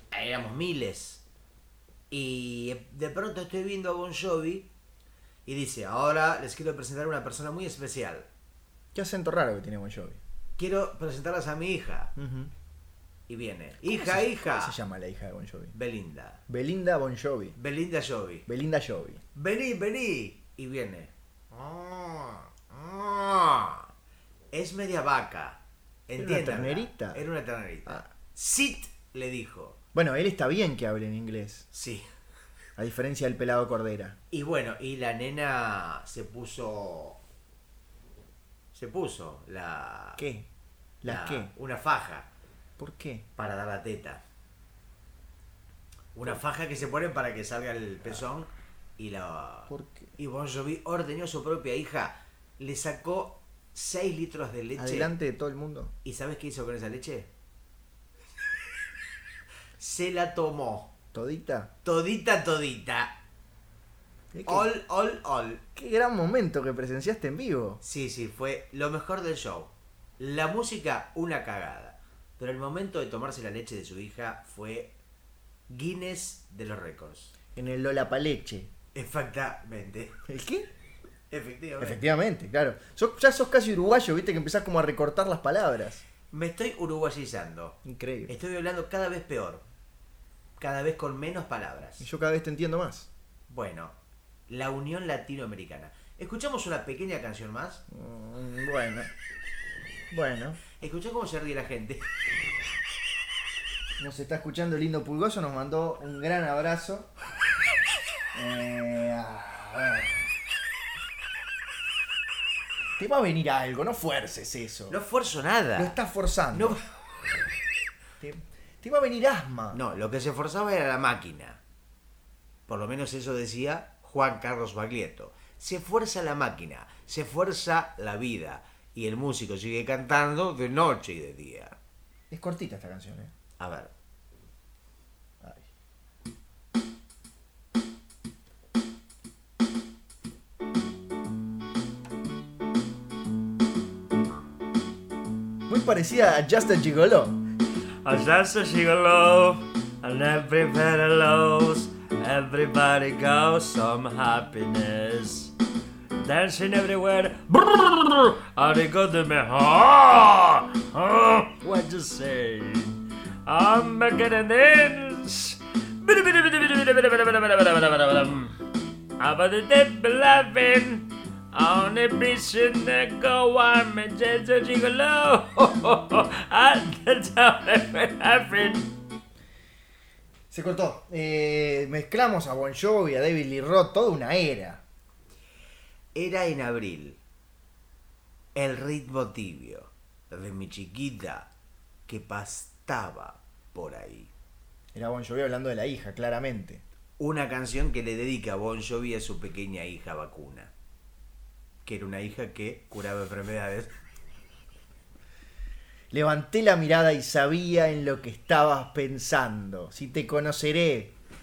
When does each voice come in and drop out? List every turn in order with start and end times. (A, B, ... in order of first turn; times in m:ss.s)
0:00.1-0:01.2 A
0:02.1-0:04.7 A
0:05.5-0:08.3 A
0:08.9-0:10.2 B
0:10.6-0:12.1 A
0:12.2-0:12.5 B
0:13.3-0:14.8 A
0:13.8-0:15.7 B
0:15.7-0:16.4 A
0:16.5-0:17.6 B
0:17.6-0:18.5 A
0:18.5-0:19.2 B
0:19.4-0:23.9 A
0:24.5-0:29.8 A
0:26.2-0:27.2 B
0:29.9-0:31.7 B
0:31.7-0:32.1 A
0:32.8-0:34.2 B
0:34.3-0:37.2 A
0:38.7-0:40.2 A
0:40.2-0:40.5 B
0:41.0-0:41.5 B
0:41.1-0:42.3 A
0:42.8-0:43.3 B
0:43.4-0:44.2 A
0:46.1-0:55.1 A
0:49.7-0:50.1 B
0:54.8-0:55.9 B
0:56.0-0:57.3 A
0:59.8-1:00.9 A
1:01.1-1:01.7 B
1:01.8-1:03.2 A
1:04.3-1:04.7 B
1:04.5-1:05.6 A
1:05.8-1:07.8 B
1:07.8-1:14.9 A
1:15.7-1:17.3 A
1:17.6-1:18.7 B
1:18.9-1:20.2 A
1:20.3-1:20.7 B
1:21.3-1:22.0 A
1:21.8-1:26.0 B
1:26.3-1:29.6 A
1:27.8-1:28.4 B
1:30.6-1:32.1 A
1:32.0-1:33.1 B
1:33.5-1:34.0 A
1:34.5-1:37.8 A
1:37.9-1:39.1 B
1:40.1-1:40.6 B
1:40.8-1:42.0 A
1:44.0-1:47.1 B
1:48.3-1:50.2 B
1:53.0-1:55.0 B
1:54.9-1:56.0 A
1:55.8-1:56.8 B
1:56.5-1:56.8 A
1:58.2-1:59.8 B
1:59.7-2:01.6 A
2:02.7-2:11.8 A
2:12.3-2:13.3 B
2:13.6-2:13.9 A
2:25.7-2:27.4 B
2:28.0-2:35.5 C
2:36.2-2:48.6 C
2:49.2-2:58.9 C
3:00.5-3:04.8 B
3:06.2-3:07.2 A
3:08.6-3:11.5 A
3:12.1-3:14.3 A
3:14.9-3:16.8 B
3:17.2-3:20.7 A
3:21.8-3:23.9 A
3:26.1-3:31.1 B